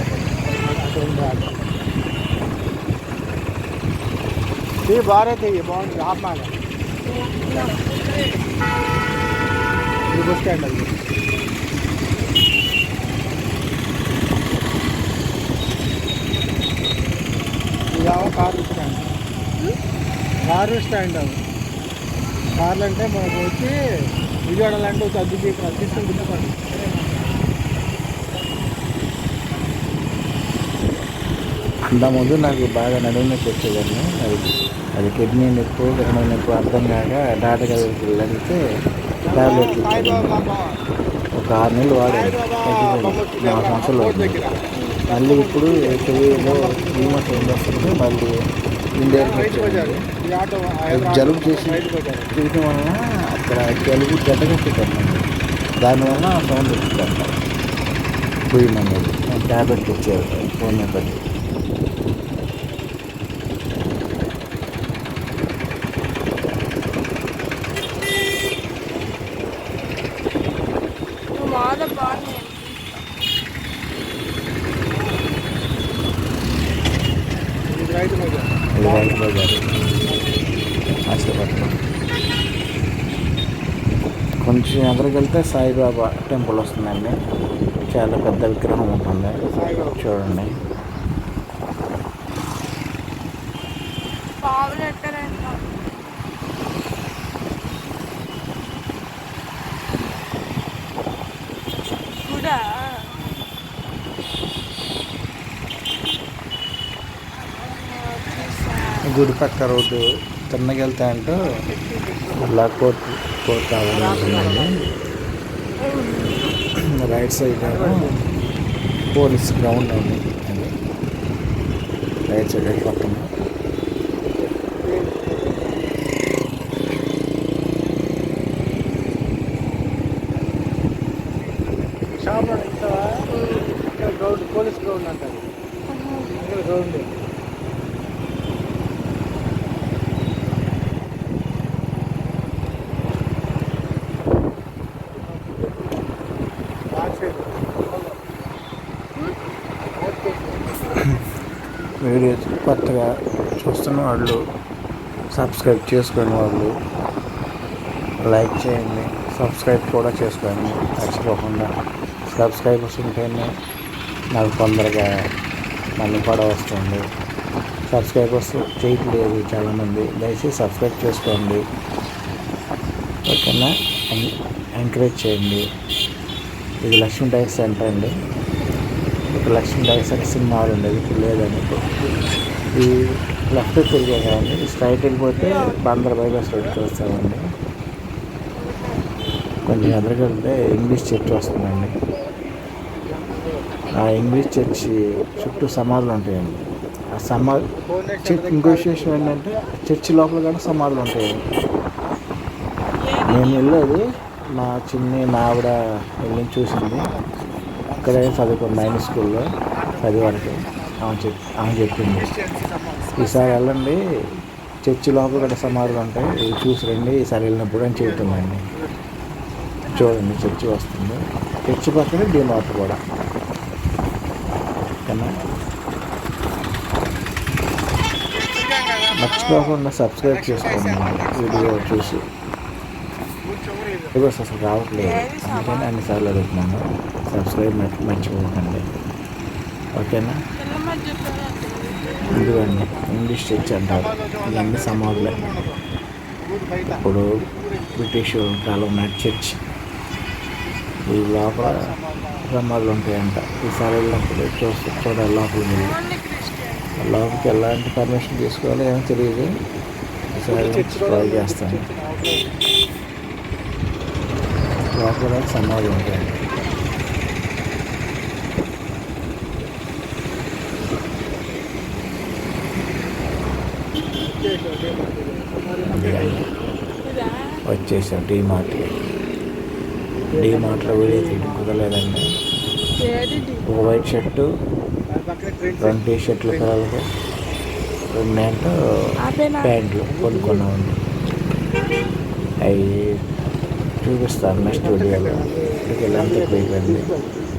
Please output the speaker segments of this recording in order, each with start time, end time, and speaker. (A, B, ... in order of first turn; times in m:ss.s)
0:00.5-0:01.6 A
0:04.9-0:06.6 A
0:07.2-0:07.9 B
0:10.1-0:11.0 A
0:17.9-0:19.1 A
0:20.4-0:21.4 A
0:22.6-0:23.7 A
0:24.4-0:27.5 A
0:31.9-0:38.6 C
0:39.2-0:40.8 A
0:39.3-0:40.4 C
0:41.4-0:44.4 C
0:42.1-0:44.6 A
0:44.7-0:45.0 B
0:45.1-0:47.6 A
0:45.1-0:48.3 C
0:49.0-0:50.0 C
0:49.0-0:52.3 A
0:50.9-0:51.8 C
0:52.3-0:55.2 C
0:55.8-0:57.3 C
0:58.5-1:01.2 C
1:11.4-1:13.1 B
1:17.7-1:19.2 A
1:18.8-1:19.9 C
1:20.1-1:20.4 A
1:21.1-1:21.7 C
1:24.4-1:27.2 C
1:27.9-1:30.6 C
1:29.4-1:30.1 A
1:34.4-1:35.6 B
1:42.2-1:43.2 B
1:47.5-1:49.0 B
1:49.0-1:51.5 C
1:51.4-1:52.7 A
1:52.4-1:54.7 C
1:53.9-1:54.7 A
1:55.8-1:56.4 B
1:57.0-1:58.0 C
1:57.6-1:58.2 A
1:59.1-2:00.7 C
2:02.3-2:03.3 C
2:04.8-2:05.7 A
2:12.2-2:13.2 A
2:13.3-2:13.7 B
2:13.8-2:15.5 A
2:15.9-2:16.3 B
2:16.4-2:17.1 A
2:25.2-2:25.9 A
2:26.9-2:28.2 A
2:30.0-2:30.8 A
2:32.0-2:34.4 C
2:35.3-2:36.7 C
2:38.2-2:41.7 C
2:42.3-2:43.5 C
2:44.4-2:45.1 C
2:46.0-2:47.0 C
2:47.9-2:51.6 C
2:53.3-2:55.6 C
2:56.8-2:58.1 C
2:59.4-3:02.1 C
3:03.5-3:07.4 C
3:09.7-3:11.9 C
3:13.1-3:13.8 A
3:13.9-3:16.6 C
3:17.2-3:17.6 C
3:17.8-3:19.4 A
3:18.2-3:21.3 C
3:23.0-3:23.8 B
3:23.3-3:24.0 C
3:24.6-3:27.1 C
3:26.8-3:28.5 A
3:28.0-3:29.5 C
3:28.7-3:29.2 B
3:29.7-3:31.2 A
3:30.0-3:32.3 C
3:32.2-3:33.2 A
3:33.2-3:33.7 B
3:33.2-3:34.0 C
3:34.9-3:38.6 C
3:35.3-3:36.0 A
3:37.9-3:39.0 A
3:39.6-3:40.2 A
3:39.9-3:43.0 C
3:45.1-3:45.4 C
3:48.3-3:51.9 A
3:49.1-3:52.2 C
3:53.4-3:54.2 A
3:54.1-3:58.8 C
3:55.0-3:55.9 B
4:00.0-4:00.4 C
4:00.6-4:02.2 B
4:02.0-4:05.8 A
4:02.3-4:05.4 C
4:06.4-4:08.0 A
4:08.0-4:09.5 C
4:11.1-4:11.7 C
4:11.4-4:12.4 A
4:12.5-4:15.9 C
4:15.7-4:17.1 B
4:17.0-4:19.5 C
4:17.2-4:17.6 A
4:20.3-4:21.8 C
4:20.4-4:22.5 A
4:24.9-4:26.3 C
4:34.2-4:36.4 A
4:35.9-4:36.4 C
4:37.0-4:37.6 B
4:37.7-4:38.9 C
4:40.3-4:41.7 A
4:40.4-4:42.2 C
4:43.0-4:44.0 B
4:43.7-4:44.5 C
4:45.1-4:46.7 A
4:45.8-4:47.0 C
4:48.2-4:48.7 C
4:49.2-4:49.7 B
4:49.6-4:51.0 C
4:50.1-4:50.7 A
4:52.6-4:53.1 C
4:54.0-4:57.1 C
4:54.7-4:57.3 A